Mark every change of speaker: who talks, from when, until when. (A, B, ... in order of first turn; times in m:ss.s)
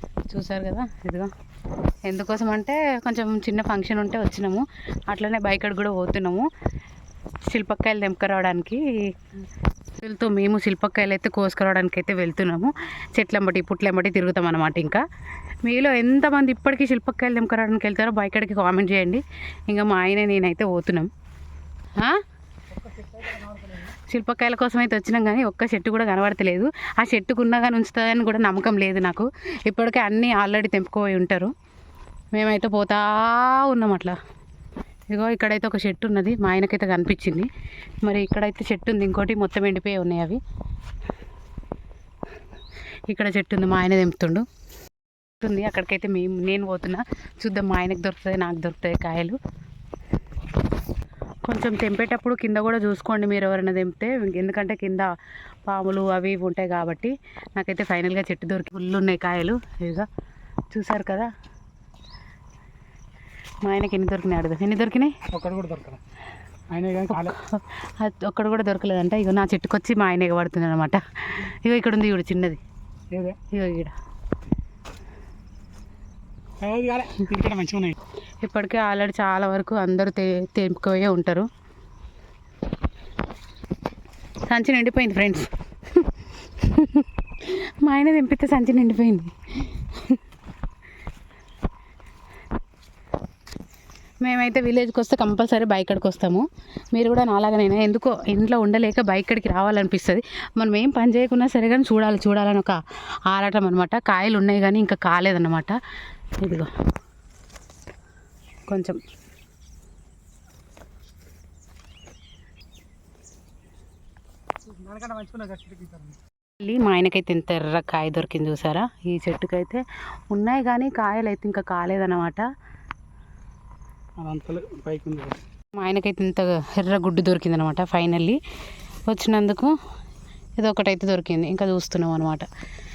0:00.3-0:01.3 A
0:02.0-0:06.5 A
0:07.4-0:08.8 A
0:10.0-0:15.0 A
0:15.6-0:21.1 A
0:22.8-0:23.8 B
0:24.1-0:31.5 A
0:32.3-0:34.2 A
0:35.1-0:37.5 A
0:38.0-0:40.4 A
0:43.1-0:44.4 A
0:45.4-0:49.4 A
0:51.4-0:55.1 A
0:55.7-1:00.1 A
1:00.7-1:01.3 A
1:03.6-1:05.1 A
1:05.3-1:06.0 B
1:06.7-1:07.4 B
1:07.1-1:12.6 A
1:13.1-1:13.4 B
1:13.5-1:13.9 A
1:16.6-1:18.0 B
1:18.4-1:21.5 A
1:24.5-1:30.2 A
1:34.2-1:42.8 A
1:43.3-1:45.8 A
1:46.4-1:46.7 A
1:48.7-1:49.0 A
1:54.7-1:56.2 B
1:56.6-2:02.4 A
2:04.2-2:05.4 B
2:05.8-2:08.4 A
2:09.1-2:09.8 A
2:10.6-2:12.5 A